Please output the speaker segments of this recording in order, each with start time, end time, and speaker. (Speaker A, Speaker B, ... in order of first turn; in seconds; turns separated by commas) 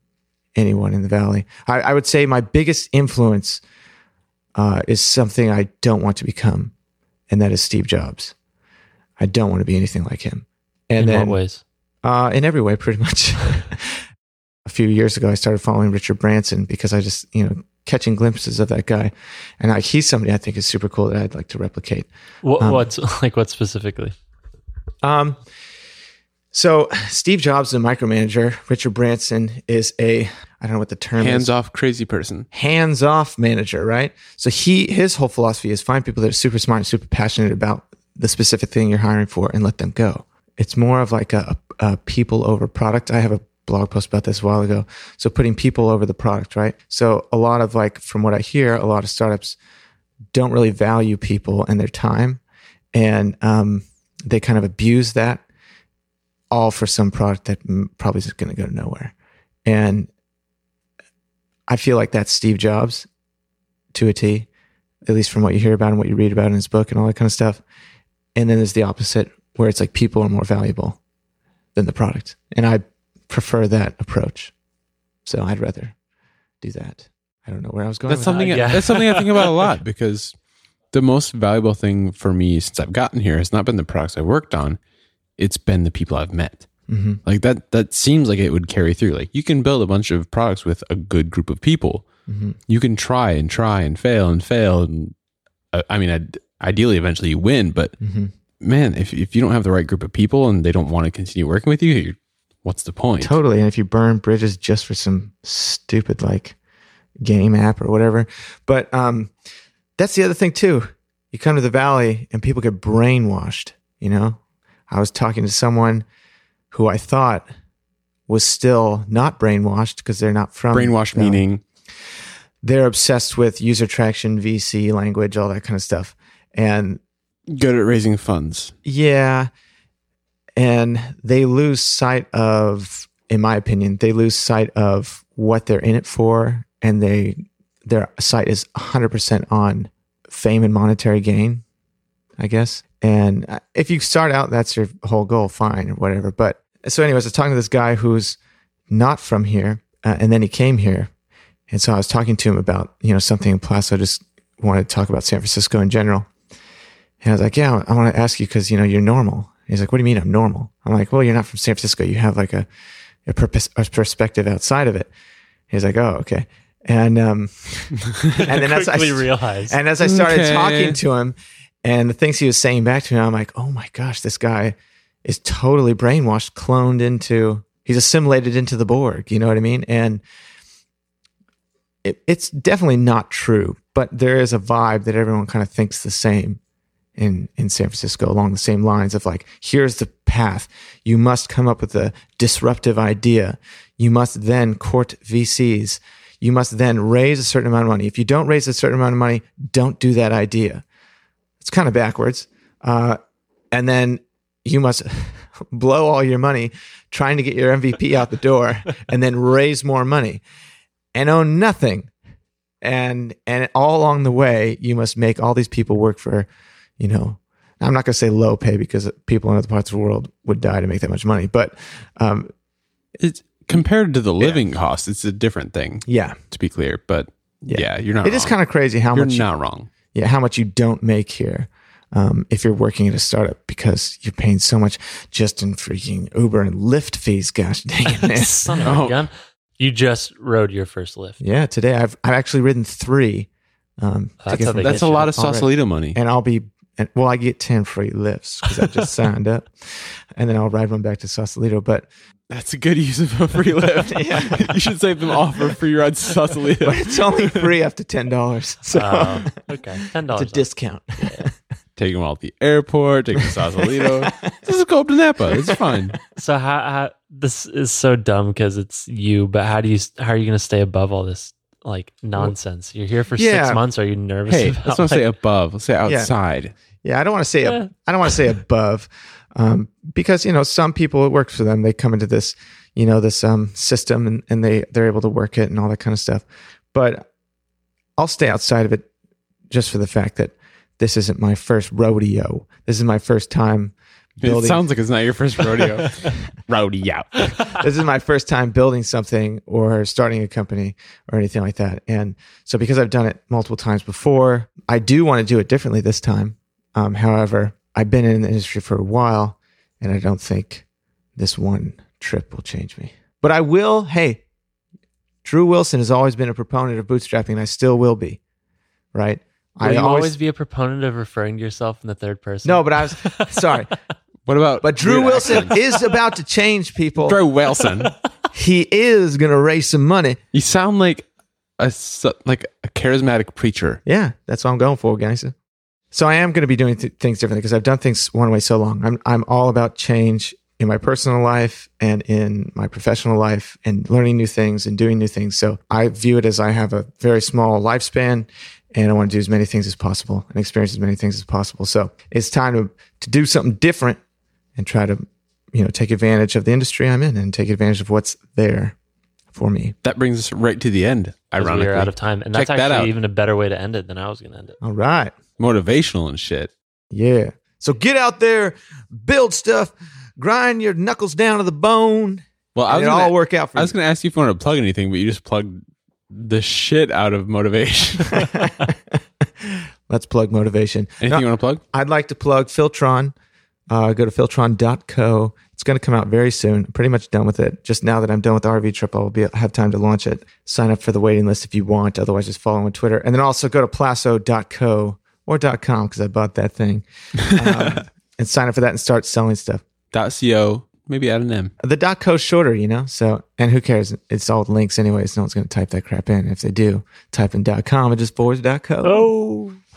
Speaker A: 0.6-3.6, Speaker A: 4.6-6.7, Speaker A: 7.3-8.3, Speaker A: 9.2-11.4, Speaker B: 11.0-11.6, Speaker A: 12.0-14.1, Speaker A: 14.6-22.1, Speaker B: 22.4-24.1, Speaker A: 22.6-22.9, Speaker A: 25.0-25.4, Speaker A: 26.5-31.5, Speaker C: 31.2-32.5, Speaker A: 32.5-49.6, Speaker A: 50.3-52.4, Speaker A: 52.9-55.4, Speaker A: 56.5-59.1, Speaker A: 59.6-60.1, Speaker A: 61.7-63.1, Speaker A: 63.9-64.5, Speaker A: 65.0-67.6, Speaker A: 68.3-71.0, Speaker A: 71.7-74.5, Speaker A: 75.2-76.0, Speaker A: 76.6-78.7, Speaker C: 78.1-80.3, Speaker B: 78.2-79.5, Speaker C: 80.9-84.8, Speaker C: 85.4-86.7, Speaker A: 86.9-87.2, Speaker C: 87.2-92.1, Speaker A: 92.3-92.6, Speaker C: 92.7-95.1, Speaker C: 95.7-98.0, Speaker A: 98.0-98.3, Speaker C: 98.6-103.4, Speaker A: 103.2-106.6, Speaker A: 107.2-109.3, Speaker A: 110.0-116.0, Speaker A: 116.7-117.5, Speaker A: 118.3-121.4, Speaker C: 120.7-121.6, Speaker A: 122.6-127.0, Speaker C: 127.5-128.7, Speaker A: 128.8-129.5, Speaker A: 130.6-141.6, Speaker A: 142.4-148.4, Speaker A: 148.9-151.1, Speaker A: 151.7-156.3, Speaker A: 157.2-162.7, Speaker A: 163.3-165.1, Speaker A: 165.7-180.2, Speaker B: 168.4-169.8, Speaker C: 170.0-171.0, Speaker A: 182.0-186.6, Speaker A: 187.2-200.8, Speaker A: 201.6-203.2, Speaker A: 203.7-210.4, Speaker A: 211.1-212.1, Speaker A: 212.8-216.5, Speaker A: 217.0-222.5, Speaker C: 223.2-228.6, Speaker A: 226.1-226.4, Speaker A: 227.7-229.5, Speaker C: 229.1-229.9, Speaker A: 230.1-238.9, Speaker B: 238.1-241.4, Speaker C: 238.8-239.2, Speaker A: 241.4-243.5, Speaker A: 244.0-252.1, Speaker B: 244.4-245.2, Speaker C: 244.8-246.2, Speaker C: 252.5-257.7, Speaker A: 254.1-254.7, Speaker A: 256.8-259.5, Speaker B: 258.9-260.7, Speaker A: 260.3-261.5, Speaker B: 261.2-261.4, Speaker C: 262.0-266.2, Speaker A: 263.4-264.5, Speaker A: 265.5-265.9, Speaker B: 266.4-275.3, Speaker A: 273.4-273.8, Speaker C: 274.5-276.7, Speaker A: 276.1-276.3, Speaker A: 277.0-287.3, Speaker A: 288.2-289.1, Speaker A: 289.7-294.8, Speaker C: 294.4-297.8, Speaker A: 297.7-310.9, Speaker A: 311.4-314.4, Speaker A: 315.4-318.4, Speaker A: 319.1-320.3, Speaker B: 319.8-323.6, Speaker A: 322.6-323.9, Speaker C: 324.5-325.8, Speaker A: 324.8-327.4, Speaker C: 327.2-328.1, Speaker A: 328.5-330.4, Speaker C: 330.5-331.3, Speaker C: 331.8-334.0, Speaker A: 334.1-335.5, Speaker A: 336.1-354.2, Speaker A: 354.8-358.9, Speaker A: 359.5-359.9, Speaker C: 360.0-363.1, Speaker B: 361.6-364.8, Speaker A: 364.8-365.3, Speaker C: 365.6-366.7, Speaker A: 367.1-373.9, Speaker C: 372.8-378.7, Speaker A: 378.3-383.3, Speaker C: 381.2-381.8, Speaker A: 383.9-399.8, Speaker C: 400.1-401.7, Speaker A: 401.8-409.3, Speaker B: 409.0-409.8